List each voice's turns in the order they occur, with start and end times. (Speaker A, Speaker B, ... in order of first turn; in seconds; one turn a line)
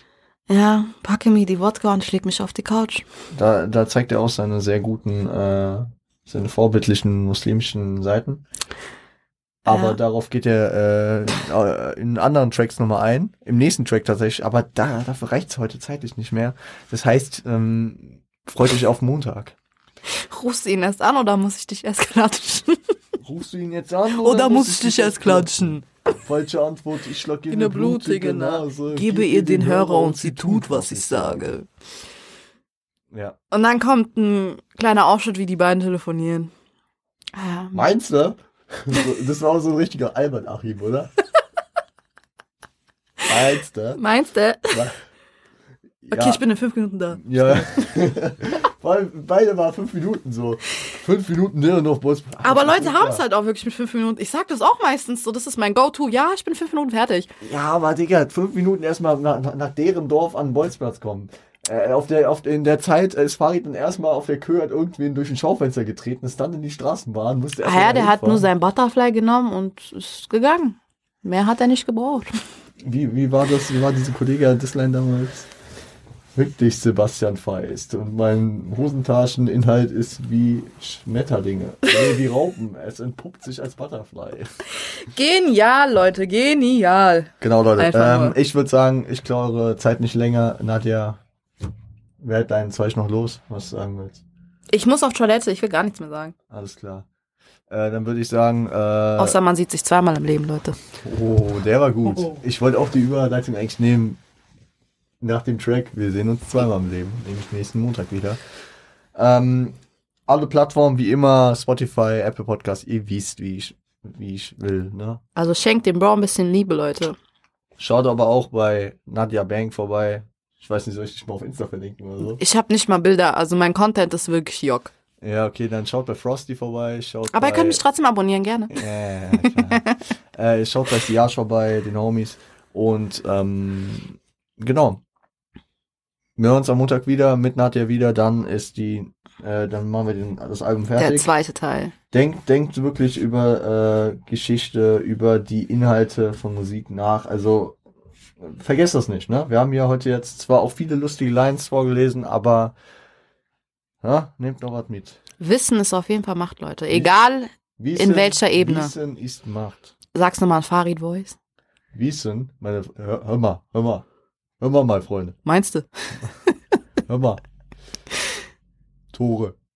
Speaker A: 0.5-3.0
Speaker B: 3.3-8.4
Speaker B: 9.6-19.6
Speaker A: 9.7-10.0
Speaker A: 20.1-22.8
Speaker B: 23.2-31.6
Speaker A: 24.1-25.9
Speaker A: 27.5-31.7
Speaker B: 33.1-33.4
Speaker A: 33.5-36.5
Speaker A: 37.3-37.9
Speaker B: 37.7-41.1
Speaker B: 43.2-44.0
Speaker A: 44.0-44.9
Speaker B: 44.7-45.0
Speaker B: 46.0-46.4
Speaker A: 46.1-47.9
Speaker B: 47.1-53.2
Speaker A: 52.4-57.3
Speaker B: 57.4-68.5
Speaker A: 67.6-72.3
Speaker B: 72.8-75.5
Speaker B: 76.3-84.5
Speaker A: 85.0-88.4
Speaker B: 87.4-91.2
Speaker B: 92.2-94.2
Speaker A: 94.7-96.3
Speaker B: 96.5-97.1
Speaker B: 97.7-99.4
Speaker A: 99.2-100.8
Speaker B: 101.0-104.2
Speaker B: 105.2-108.4
Speaker B: 109.2-109.8
Speaker B: 110.3-115.2
Speaker A: 115.4-117.2
Speaker B: 117.8-122.4
Speaker A: 122.4-124.9
Speaker B: 125.2-127.8
Speaker A: 127.3-128.8
Speaker B: 128.7-135.0
Speaker A: 129.4-129.9
Speaker B: 136.4-141.3
Speaker A: 141.0-141.9
Speaker B: 142.1-147.8
Speaker B: 148.4-152.8
Speaker B: 154.0-155.2
Speaker A: 155.4-158.9
Speaker B: 157.8-159.9
Speaker A: 160.1-161.4
Speaker B: 161.9-164.1
Speaker B: 164.6-165.4
Speaker A: 165.4-166.5
Speaker B: 167.1-167.4
Speaker B: 169.1-169.6